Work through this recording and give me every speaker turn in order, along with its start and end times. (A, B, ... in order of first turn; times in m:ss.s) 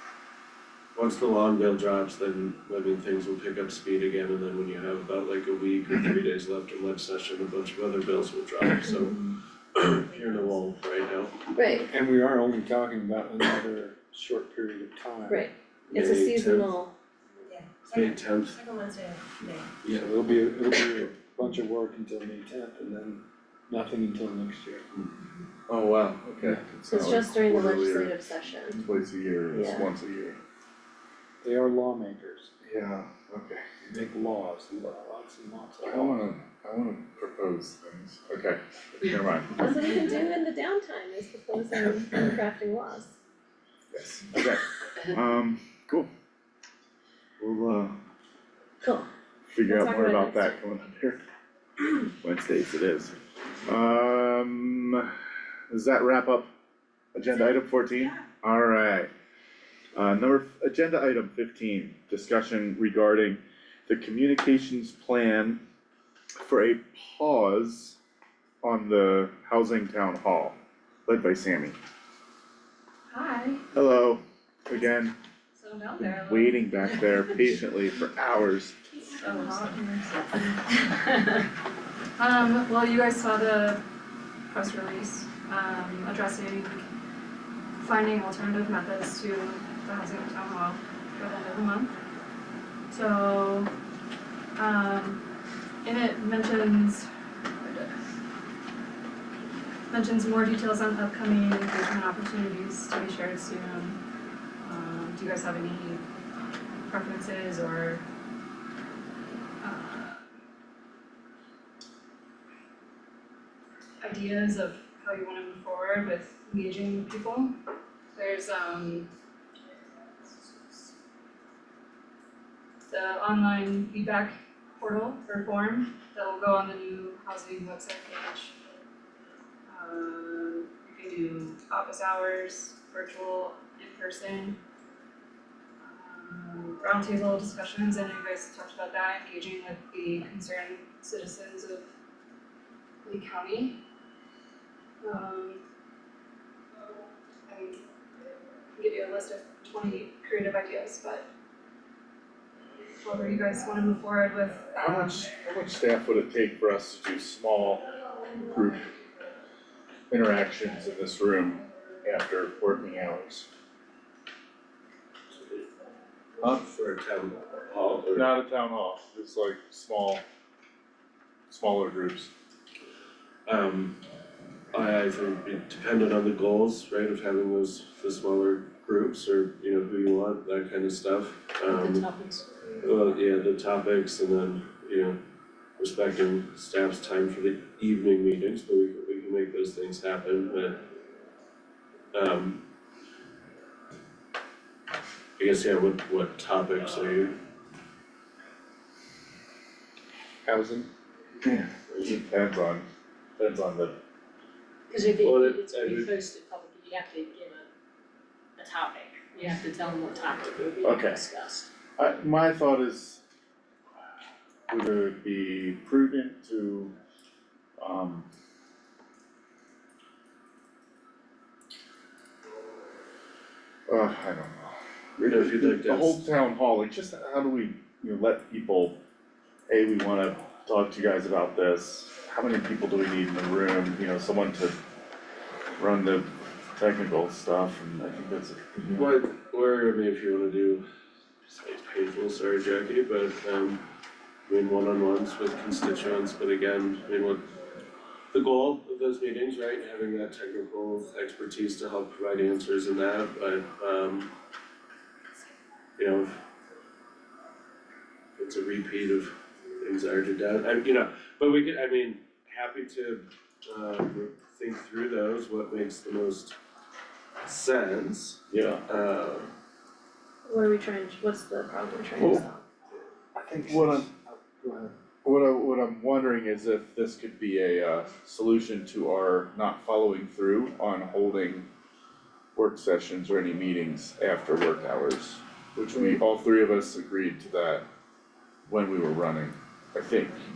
0:01.0-0:11.4 A
0:10.2-0:10.5 B
0:11.5-0:11.9 C
0:11.8-0:15.5 D
0:15.3-0:16.9 C
0:15.9-0:16.8 A
0:17.9-0:18.6 A
0:18.5-0:19.4 B
0:19.8-0:20.2 A
0:19.9-0:24.9 D
0:25.7-0:28.2 E
0:26.9-0:28.8 C
0:28.7-0:30.4 E
0:29.5-0:29.9 C
0:31.4-0:32.5 D
0:32.6-0:33.6 E
0:33.8-0:36.3 D
0:35.8-0:39.5 E
0:39.6-0:43.1 C
0:43.9-0:46.1 E
0:47.4-0:48.0 E
0:48.8-0:49.1 C
0:49.5-0:51.2 E
0:49.7-0:50.6 C
0:52.1-0:55.1 E
0:55.7-0:56.5 E
0:57.2-0:59.1 E
1:00.0-1:05.6 E
1:06.4-1:08.0 E
1:08.6-1:11.8 E
1:13.1-1:13.6 F
1:13.7-1:15.1 E
1:15.5-1:16.9 F
1:16.0-1:18.8 E
1:19.1-1:21.2 F
1:22.2-1:23.8 F
1:24.5-1:26.8 F
1:27.8-1:31.9 F
1:32.9-1:33.7 F
1:34.6-1:35.2 F
1:35.8-1:37.1 F
1:37.6-1:38.0 F
1:39.9-1:44.0 F
1:44.6-1:46.0 F
1:46.8-1:48.0 F
1:49.6-1:50.2 F
1:54.0-1:57.6 F
1:58.1-1:59.1 F
2:02.9-2:08.6 F
2:09.7-2:14.6 F
2:15.8-2:21.9 F
2:23.0-2:23.8 F
2:25.0-2:25.6 F
2:27.5-2:27.8 F
2:28.8-2:31.2 F
2:33.0-2:35.3 F
2:34.8-2:38.9 E
2:40.1-2:43.5 E
2:46.4-2:48.4 A
2:48.2-2:50.2 E
2:51.5-2:52.3 E
2:53.5-2:54.0 A
2:54.7-3:02.1 A
3:01.7-3:02.4 B
3:02.8-3:05.2 A
3:05.8-3:10.8 A
3:12.1-3:12.6 A
3:15.4-3:17.4 A
3:20.4-3:20.9 D
3:21.4-3:22.9 E
3:23.4-3:24.0 E
3:24.9-3:25.2 C
3:25.0-3:27.7 B
3:25.2-3:26.2 A
3:28.6-3:31.7 B
3:28.6-3:28.9 C
3:30.8-3:31.2 E
3:32.0-3:33.2 E
3:34.7-3:36.9 E
3:37.8-3:38.3 E
3:43.9-3:49.0 E
3:45.2-3:46.2 A
3:49.7-3:54.8 E
3:55.8-3:59.0 E
3:58.9-4:00.8 A
4:01.5-4:03.8 A
4:04.5-4:07.4 A
4:08.3-4:14.3 A
4:16.0-4:16.4 A
4:18.4-4:26.6 A
4:27.4-4:29.5 A
4:28.5-4:28.8 E
4:30.4-4:32.6 C
4:32.2-4:32.4 E
4:33.4-4:34.9 D
4:33.6-4:34.1 E
4:35.2-4:41.7 E
4:42.6-4:47.8 E
4:48.7-4:50.4 E